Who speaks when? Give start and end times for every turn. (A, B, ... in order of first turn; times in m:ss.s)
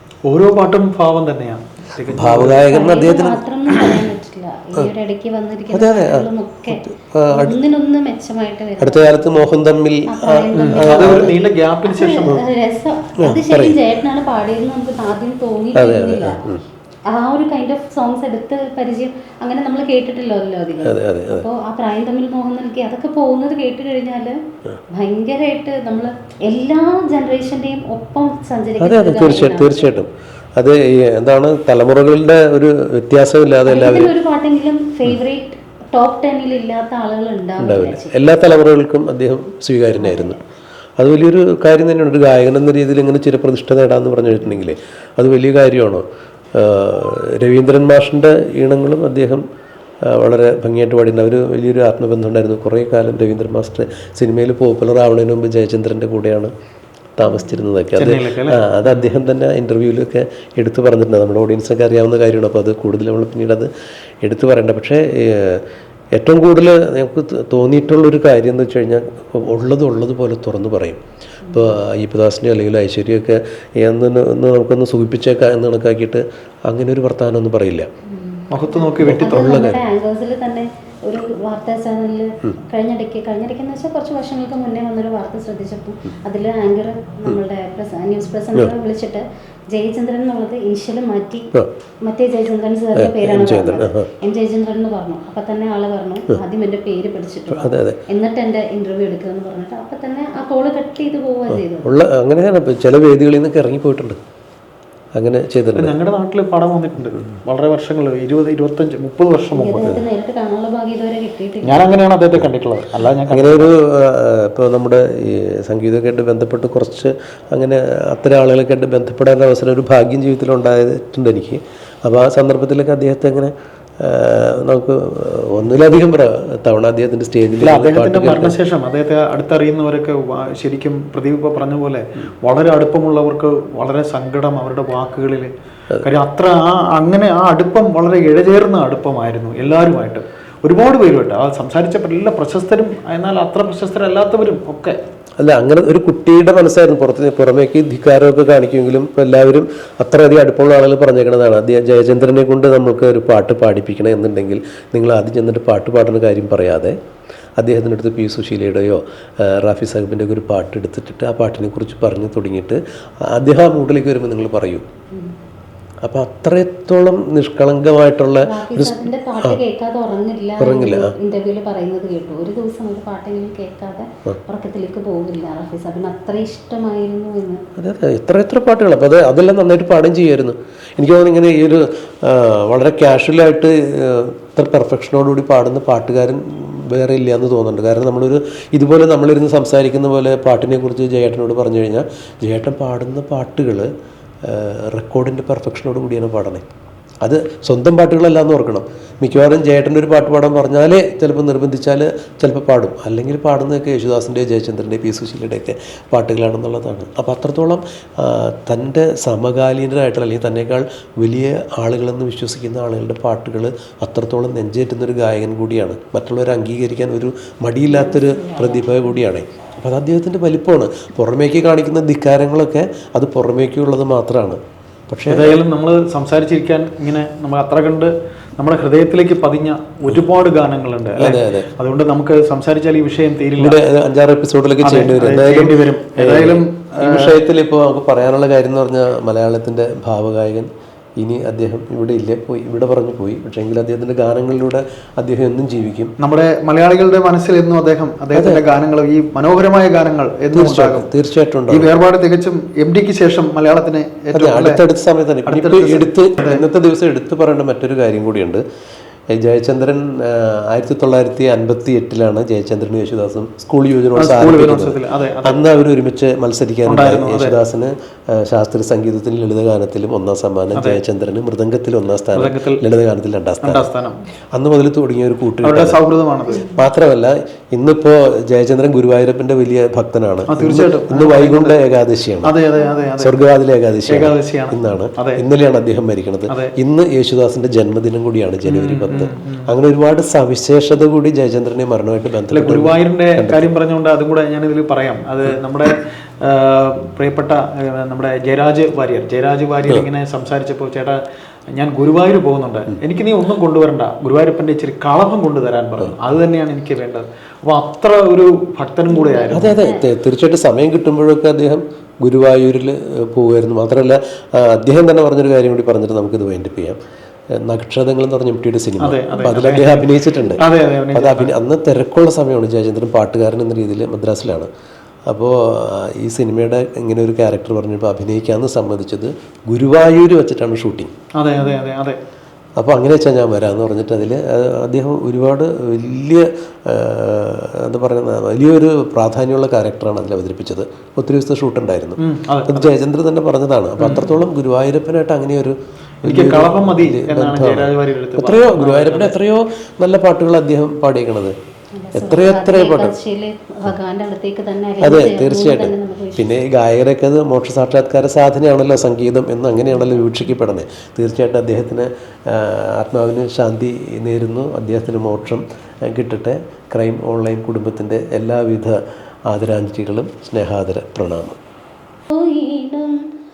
0:00.2-0:02.7 A
0:02.1-0:04.0 B
0:02.5-0:09.5 C
0:05.7-0:07.6 B
0:08.8-0:11.3 B
0:10.1-0:11.4 C
0:10.5-0:12.4 A
0:11.9-0:16.4 C
0:13.2-0:13.8 B
0:15.7-0:16.6 B
0:17.1-0:24.3 C
0:20.8-0:21.4 B
0:25.0-0:30.0 C
0:28.8-0:34.1 B
0:33.7-0:38.2 C
0:37.6-0:40.4 B
0:40.0-0:40.4 C
0:41.0-0:46.0 B
0:46.5-0:49.4 B
0:50.0-0:56.5 B
0:57.2-1:03.7 B
0:57.3-0:57.6 C
0:58.0-0:58.7 A
1:04.2-1:05.6 B
1:06.2-1:17.9 B
1:11.5-1:11.7 C
1:18.1-1:31.5 C
1:18.5-1:19.7 A
1:19.0-1:19.8 B
1:32.0-1:42.0 C
1:32.9-1:34.1 B
1:37.5-1:38.0 B
1:41.5-1:44.2 B
1:45.1-1:46.0 B
1:45.7-1:49.9 A
1:49.5-1:51.9 C
1:51.6-1:53.7 A
1:53.3-2:08.6 B
2:07.6-2:15.5 A
2:16.0-2:25.0 A
2:25.4-2:37.0 B
2:37.6-2:42.8 B
2:43.3-2:44.8 B
2:46.0-2:49.6 B
2:48.4-2:57.6 C
2:50.6-2:51.1 B
2:57.8-3:13.9 B
3:14.4-3:16.6 B
3:17.2-3:45.6 B
3:37.9-3:39.0 C
3:45.3-3:53.8 A
3:51.2-3:51.7 B
3:53.6-4:00.7 B
3:54.8-3:57.4 A
4:01.2-4:06.1 B
4:06.2-4:11.1 A
4:08.3-4:08.6 B
4:10.5-4:11.9 B
4:11.7-4:14.8 A
4:14.3-4:18.6 B
4:15.4-4:16.6 A
4:19.3-4:33.8 B
4:24.1-4:25.6 A
4:26.8-4:27.6 A
4:32.3-4:32.8 A
4:33.6-4:34.2 A
4:34.5-4:36.0 B
4:35.6-4:36.6 A
4:36.5-4:36.9 C
4:36.6-4:42.5 B
4:40.5-4:41.8 A
4:42.4-4:43.3 A
4:42.8-4:43.0 C
4:43.2-4:53.7 B
4:44.1-4:45.4 A
4:48.6-4:49.7 A
4:52.5-5:01.2 A
5:01.7-5:09.8 A
5:09.1-5:10.1 C
5:09.5-5:17.0 B
5:17.6-5:24.7 B
5:19.0-5:21.5 A
5:25.3-5:31.1 B
5:31.4-5:32.2 A
5:32.8-5:51.5 B
5:42.2-5:42.9 A
5:44.0-5:44.3 A
5:46.2-5:49.4 A
5:51.9-5:56.5 C
5:52.1-5:53.1 B
5:55.0-6:09.0 B
6:09.5-6:11.6 B
6:12.3-6:13.2 C